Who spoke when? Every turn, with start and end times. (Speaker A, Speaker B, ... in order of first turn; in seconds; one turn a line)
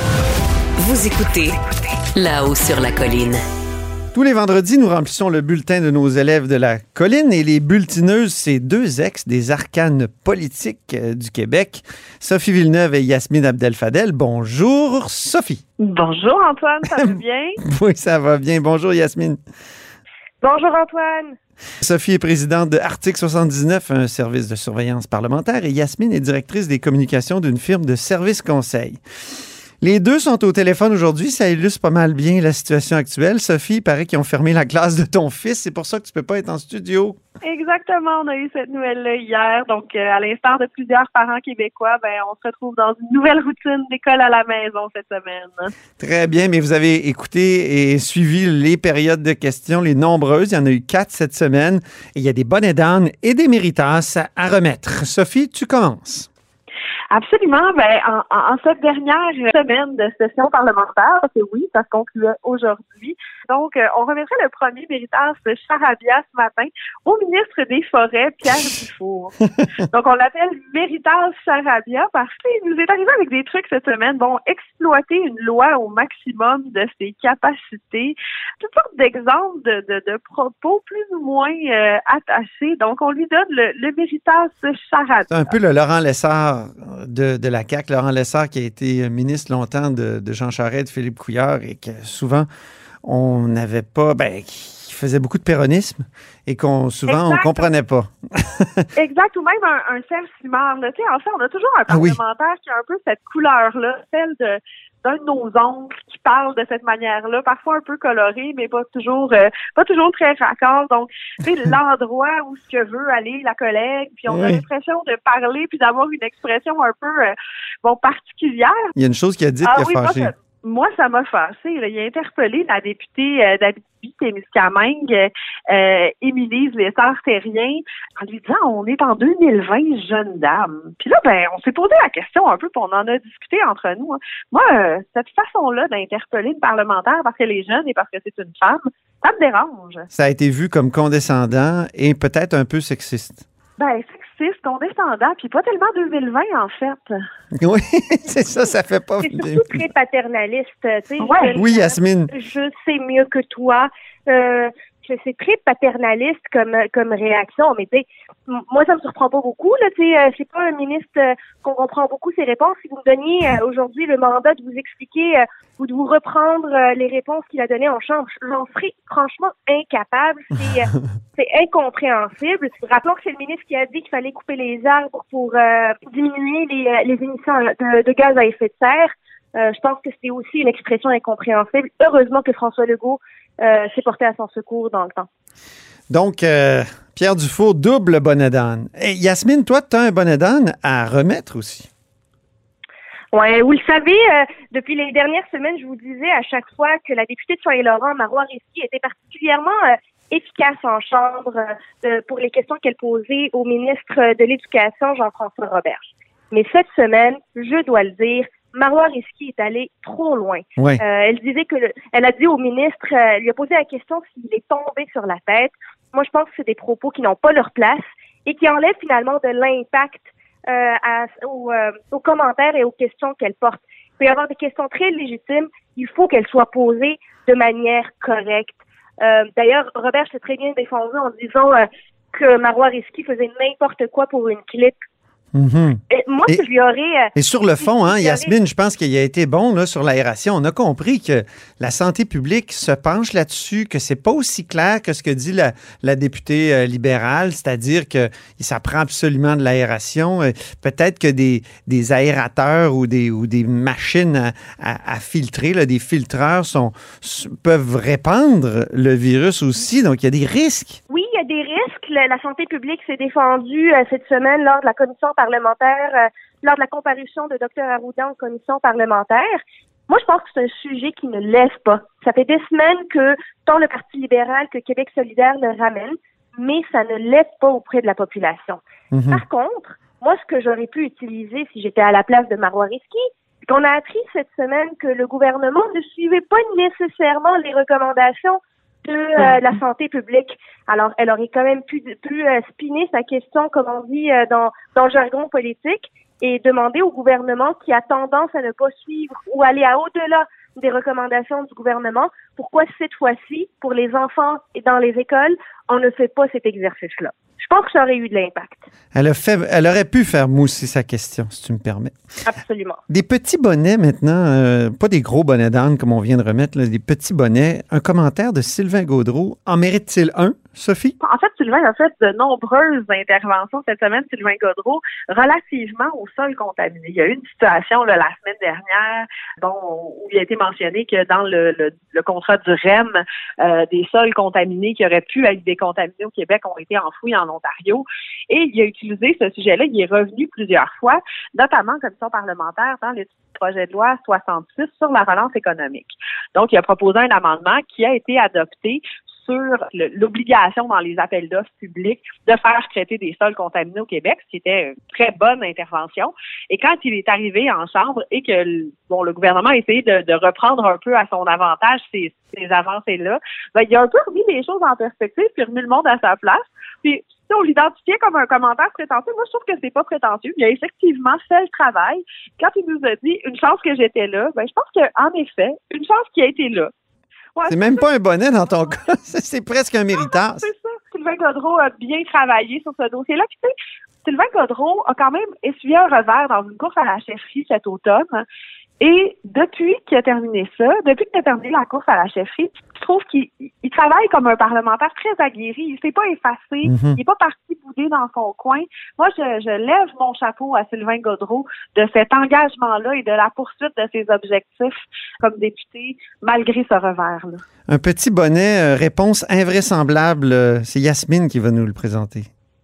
Speaker A: 0.8-1.6
Speaker A: 2.1-3.4
Speaker B: 4.1-15.6
Speaker C: 15.8-17.6
Speaker B: 17.6-19.4
Speaker D: 20.4-21.4
Speaker B: 21.8-29.0
Speaker B: 29.8-37.2
Speaker C: 37.4-45.7
Speaker B: 46.0-56.3
Speaker C: 57.1-85.4
Speaker B: 85.3-92.5
Speaker B: 93.0-98.9
Speaker C: 97.1-97.7
Speaker C: 99.0-118.8
Speaker B: 101.9-102.2
Speaker B: 114.3-114.6
Speaker B: 119.0-120.3
Speaker C: 119.7-140.1
Speaker B: 140.1-143.4
Speaker C: 143.8-147.1
Speaker B: 147.6-149.7
Speaker D: 149.2-185.3
Speaker C: 151.2-151.6
Speaker B: 151.6-152.3
Speaker B: 186.1-191.9
Speaker D: 193.3-235.0
Speaker B: 210.8-211.0
Speaker B: 235.5-236.6
Speaker D: 236.1-238.5
Speaker B: 237.3-261.0
Speaker D: 261.1-308.9
Speaker B: 279.1-279.4
Speaker B: 309.1-312.1
Speaker D: 312.5-313.0
Speaker B: 313.1-321.2
Speaker C: 321.2-376.9
Speaker C: 377.6-378.0
Speaker B: 377.7-380.7
Speaker C: 380.1-383.7
Speaker C: 384.2-388.4
Speaker C: 389.0-407.6
Speaker B: 396.9-397.2
Speaker B: 407.9-412.5